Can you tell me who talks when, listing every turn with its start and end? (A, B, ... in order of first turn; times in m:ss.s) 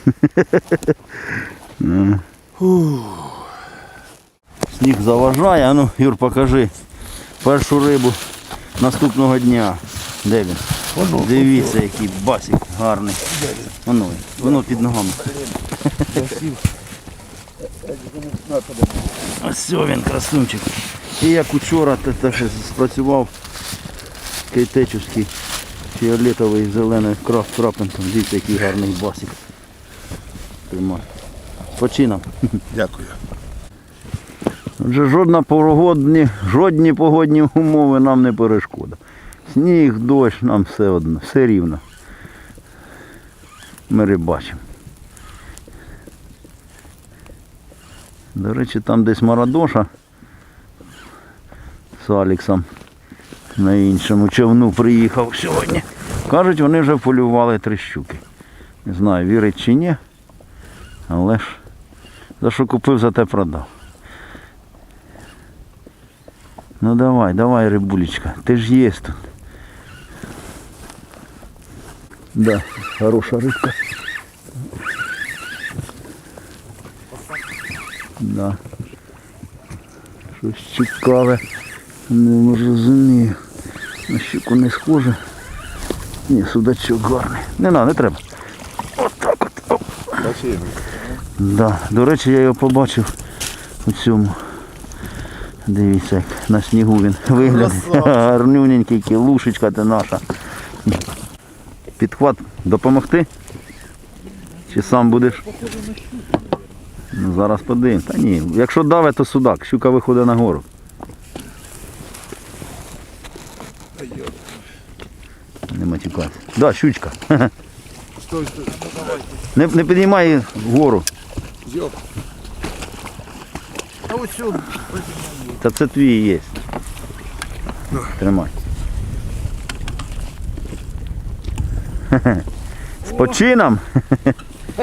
0:00.2-0:00.6 A
0:01.8-0:02.2 A
0:02.6-0:03.5 B
0:04.7-0:06.7 A
0:07.4-0:08.2 A
0:08.8-0:15.3 A
0:11.0-0:11.6 B
0:13.4-0:13.7 B
0:14.5-0:15.5 B
0:16.1-0:16.6 B
0:17.8-0:19.0 B
0:19.2-0:23.3 A
0:24.5-0:25.3 A
0:25.9-0:29.4 A
0:30.7-0:31.1 A
0:31.8-0:32.3 A
0:32.7-0:33.2 B
0:34.8-0:41.8 A
0:43.9-0:44.6 A
0:48.3-0:49.9 A
0:52.0-0:52.7 A
0:53.6-0:58.2 A
0:58.8-1:00.0 A
1:01.1-1:01.6 A
1:02.4-1:03.7 A
1:06.8-1:09.2 A
1:12.4-1:13.8 A
1:18.2-1:18.6 A
1:20.3-1:21.4 A
1:22.1-1:23.4 A
1:24.1-1:25.2 A
1:26.3-1:28.2 A
1:29.0-1:30.2 A
1:30.2-1:30.9 B
1:31.4-1:33.1 A
1:33.8-1:34.4 A
1:35.7-1:40.2 A
1:42.0-1:43.3 A
1:44.7-1:45.5 A
1:45.5-1:46.6 C
1:47.1-1:50.7 A
1:54.0-1:54.4 B
1:55.7-1:57.5 A
1:58.2-1:59.1 B
1:59.5-2:01.1 A
2:01.6-2:02.0 B
2:04.1-2:05.5 C
2:05.4-2:06.6 A
2:08.0-2:08.5 A
2:12.1-2:12.4 A
2:13.0-2:14.4 A